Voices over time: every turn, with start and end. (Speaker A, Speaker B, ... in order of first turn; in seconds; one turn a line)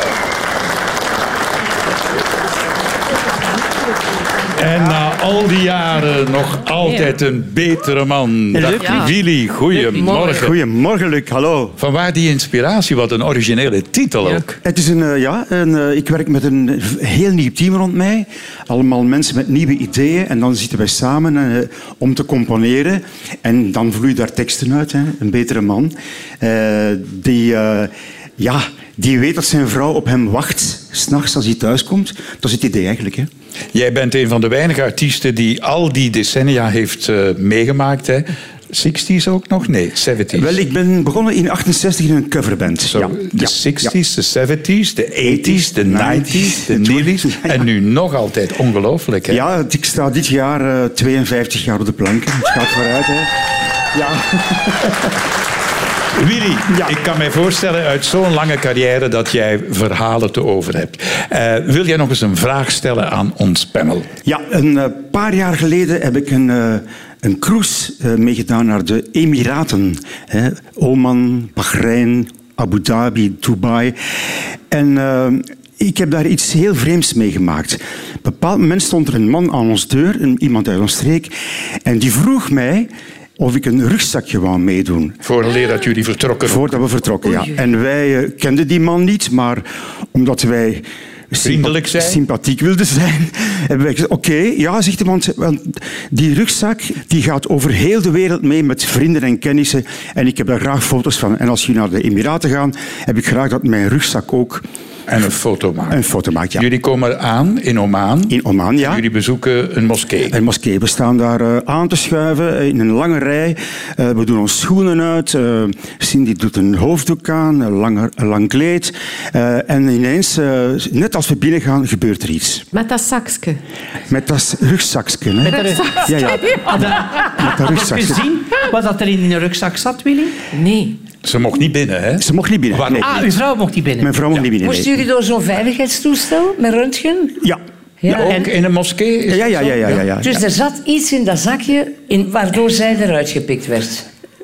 Speaker A: 4.5-10.6
Speaker B: 8.5-9.1
Speaker C: 8.8-9.2
Speaker C: 9.7-10.5
Speaker D: 10.4-11.8
Speaker A: 11.8-14.6
Speaker D: 14.6-33.3
Speaker A: 33.7-40.6
Speaker D: 40.3-44.0
Speaker A: 42.9-49.4
Speaker D: 45.2-47.6
Speaker D: 49.3-53.3
Speaker D: 53.9-55.0
Speaker A: 56.1-64.1
Speaker D: 56.7-56.9
Speaker D: 64.2-74.0
Speaker D: 74.7-81.3
Speaker D: 81.8-85.2
Speaker A: 85.2-87.0
Speaker D: 86.5-104.7
Speaker A: 91.4-92.2
Speaker A: 105.1-110.4
Speaker D: 105.9-106.7
Speaker D: 108.3-109.0
Speaker D: 110.3-122.6
Speaker C: 122.7-123.6
Speaker D: 124.1-128.2
Speaker B: 125.4-130.4
Speaker C: 125.5-127.3
Speaker C: 130.5-131.0
Speaker A: 131.2-133.3
Speaker D: 132.2-133.2
Speaker B: 133.0-134.2
Speaker D: 134.0-135.0
Speaker E: 134.6-137.4
Speaker E: 138.0-138.4
Speaker A: 138.1-140.1
Speaker B: 138.2-138.5
Speaker D: 139.3-140.4
Speaker E: 140.2-144.1